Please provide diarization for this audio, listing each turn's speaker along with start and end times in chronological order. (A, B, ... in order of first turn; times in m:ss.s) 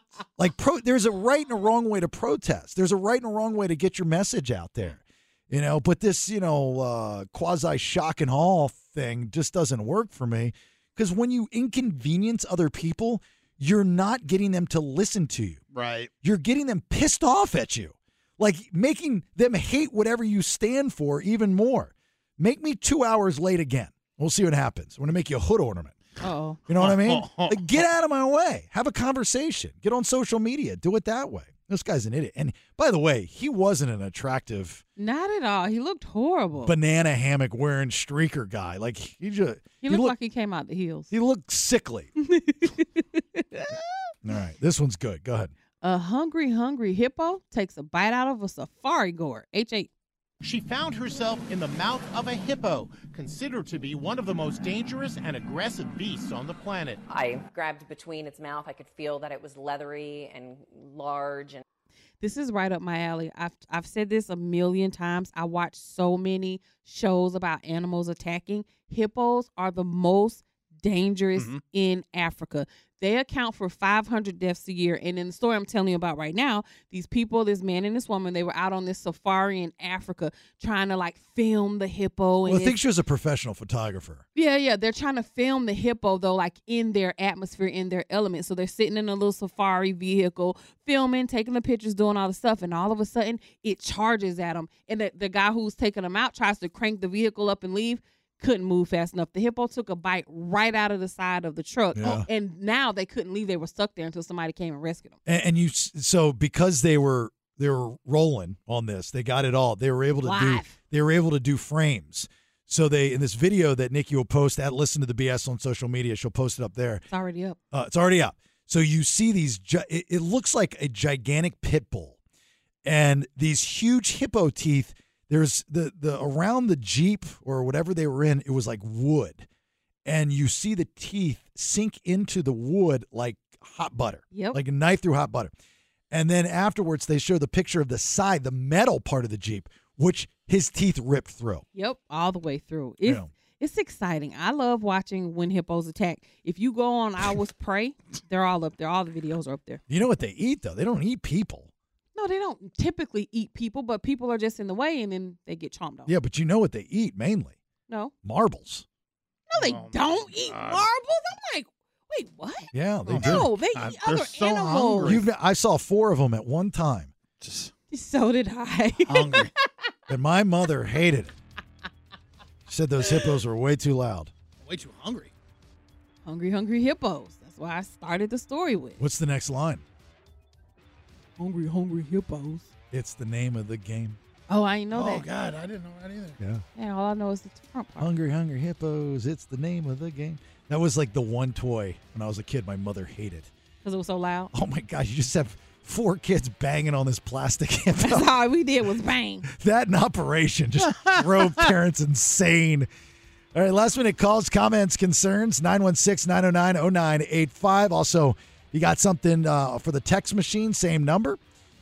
0:00.4-0:15.6 A
0:15.7-0:16.1 B
0:16.2-0:26.0 A
0:26.2-0:26.6 C
0:26.7-0:34.8 A
0:26.8-0:27.8 B
0:35.0-0:36.8 C
0:36.6-0:40.2 A
0:39.8-0:41.1 C
0:41.1-0:42.1 A
0:42.2-0:43.8 C
0:44.2-0:45.5 A
0:45.8-0:49.9 C
0:50.4-0:57.0 D
0:57.1-1:01.6 E
1:02.2-1:22.8 C
1:22.4-1:24.2 A
1:24.4-1:45.2 C
1:42.0-1:42.3 A
1:45.3-1:57.0 A
1:50.2-1:50.8 C
1:57.1-1:57.6 C
1:57.7-2:02.2 A
2:02.8-2:09.5 A
2:10.0-2:15.5 A
2:14.3-2:14.6 C
2:16.1-2:21.6 A
2:21.8-2:29.8 C
2:23.0-2:23.3 A
2:29.9-2:31.7 A
2:32.2-2:36.1 C
2:36.1-2:37.6 A
2:38.2-2:38.9 A
2:39.5-2:45.2 C
2:39.6-2:40.9 B
2:42.7-2:43.5 A
2:43.1-2:45.2 B
2:45.0-2:47.1 A
2:47.4-2:47.7 B
2:47.9-2:49.5 C
2:49.0-2:49.5 B
2:50.1-2:51.4 A
2:52.7-2:54.3 A
2:54.6-2:55.3 B
2:56.2-2:59.0 C
2:59.0-2:59.8 A
3:01.4-3:02.7 C
3:02.9-3:04.2 A
3:04.5-3:05.3 C
3:04.9-3:06.4 B
3:06.4-3:06.6 A
3:06.8-3:08.1 C
3:08.0-3:13.5 A
3:13.8-3:14.5 C
3:14.5-3:18.3 A
3:18.0-3:19.5 C
3:19.5-3:22.9 A
3:20.9-3:21.2 B
3:23.5-3:31.4 A